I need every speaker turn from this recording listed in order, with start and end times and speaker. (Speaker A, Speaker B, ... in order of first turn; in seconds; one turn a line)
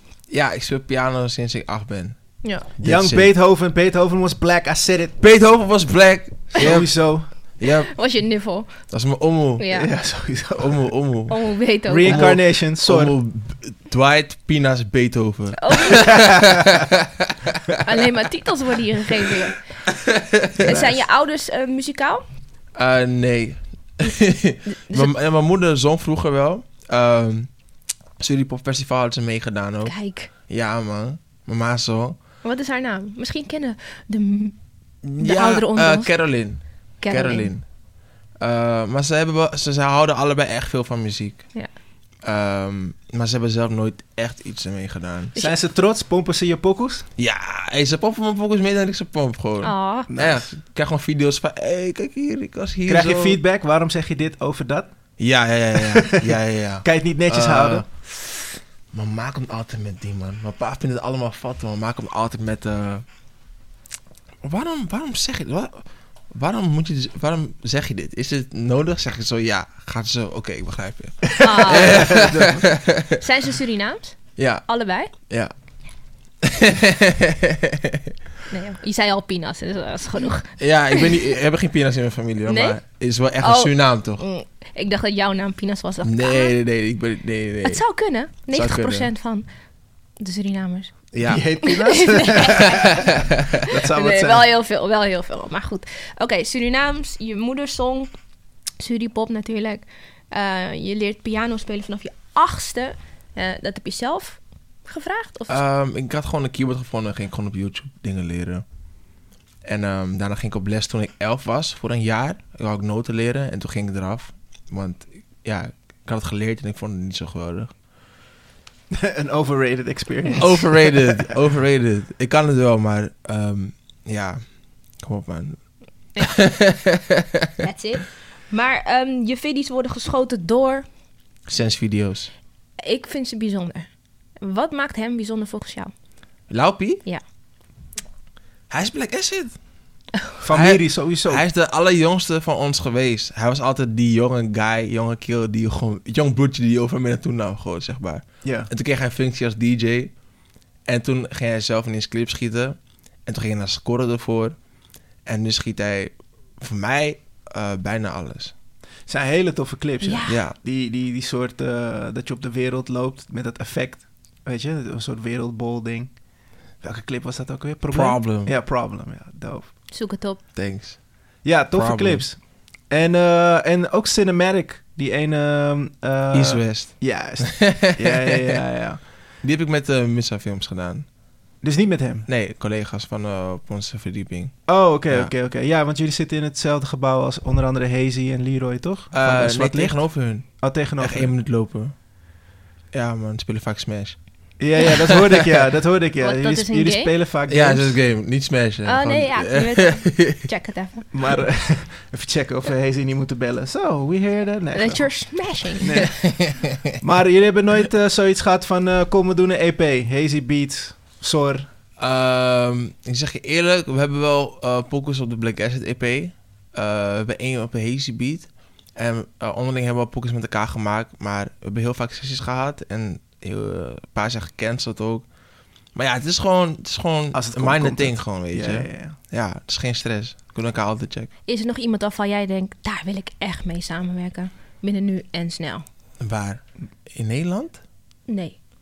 Speaker A: 0.3-2.2
Speaker B: 2.4-2.7
Speaker A: 2.7-3.3
Speaker C: 2.8-5.2
Speaker A: 5.2-7.0
Speaker C: 6.6-7.3
Speaker A: 7.6-7.9
Speaker B: 7.6-8.8
Speaker A: 8.9-9.7
Speaker B: 9.6-9.9
Speaker C: 9.7-10.9
Speaker A: 10.6-11.4
Speaker B: 11.3-12.3
Speaker C: 11.9-13.2
Speaker A: 12.0-17.5
Speaker B: 15.6-16.4
Speaker B: 17.8-19.7
Speaker A: 19.9-20.8
Speaker B: 20.6-22.2
Speaker A: 22.8-27.5
Speaker B: 24.8-25.1
Speaker A: 28.2-32.2
Speaker B: 29.8-30.3
Speaker B: 32.4-34.5
Speaker A: 35.0-37.6
Speaker B: 35.2-36.1
Speaker B: 37.0-37.5
Speaker A: 38.4-41.5
Speaker A: 42.2-45.3
Speaker C: 45.4-47.1
Speaker A: 47.2-53.4
Speaker B: 49.6-50.1
Speaker C: 50.1-50.5
Speaker C: 52.9-54.9
Speaker A: 55.2-58.4
Speaker C: 55.9-56.3
Speaker C: 56.8-57.9
Speaker A: 58.9-63.0
Speaker A: 64.4-73.2
Speaker C: 71.3-72.6
Speaker B: 71.4-72.3
Speaker B: 73.1-75.1
Speaker A: 74.4-74.7
Speaker A: 75.2-75.5
Speaker A: 76.4-78.1
Speaker B: 78.5-81.2
Speaker A: 80.6-84.2
Speaker B: 82.5-82.8
Speaker B: 83.4-86.5
Speaker A: 86.0-87.8
Speaker B: 87.6-89.5
Speaker A: 88.5-89.1
Speaker B: 90.2-93.1
Speaker A: 91.1-91.5
Speaker C: 91.2-93.0
Speaker C: 93.7-94.5
Speaker B: 93.9-98.1
Speaker B: 98.8-105.6
Speaker A: 105.5-108.7
Speaker A: 109.7-117.7
Speaker C: 118.9-121.2
Speaker A: 120.4-124.4
Speaker A: 125.0-125.6
Speaker B: 126.2-126.4
Speaker A: 126.2-127.5
Speaker B: 127.6-130.9
Speaker A: 131.5-132.3
Speaker B: 132.8-133.9
Speaker B: 134.4-135.9
Speaker A: 136.5-137.0
Speaker A: 138.7-139.6
Speaker C: 140.4-141.4
Speaker A: 140.5-150.1
Speaker C: 148.4-148.7
Speaker A: 150.9-154.6
Speaker A: 155.3-158.5
Speaker C: 159.1-166.1
Speaker B: 160.0-160.4
Speaker A: 160.3-160.6
Speaker C: 166.8-169.7
Speaker A: 167.9-168.5
Speaker B: 169.9-170.4
Speaker A: 170.6-171.0
Speaker C: 171.4-179.0
Speaker A: 171.7-172.2
Speaker A: 176.3-178.4
Speaker A: 179.4-181.1
Speaker C: 181.6-182.3
Speaker A: 182.3-185.3
Speaker C: 184.7-191.3
Speaker A: 189.1-191.9
Speaker A: 192.9-194.2
Speaker C: 194.6-198.0
Speaker B: 196.2-197.1
Speaker A: 197.5-200.5
Speaker B: 198.8-201.1
Speaker C: 201.1-205.2
Speaker B: 204.7-206.1
Speaker C: 205.8-206.5
Speaker A: 206.3-206.9
Speaker C: 207.0-211.7
Speaker A: 212.0-225.3
Speaker A: 225.9-231.3
Speaker C: 227.3-229.2
Speaker B: 231.5-235.8
Speaker A: 236.2-237.8
Speaker B: 238.3-238.6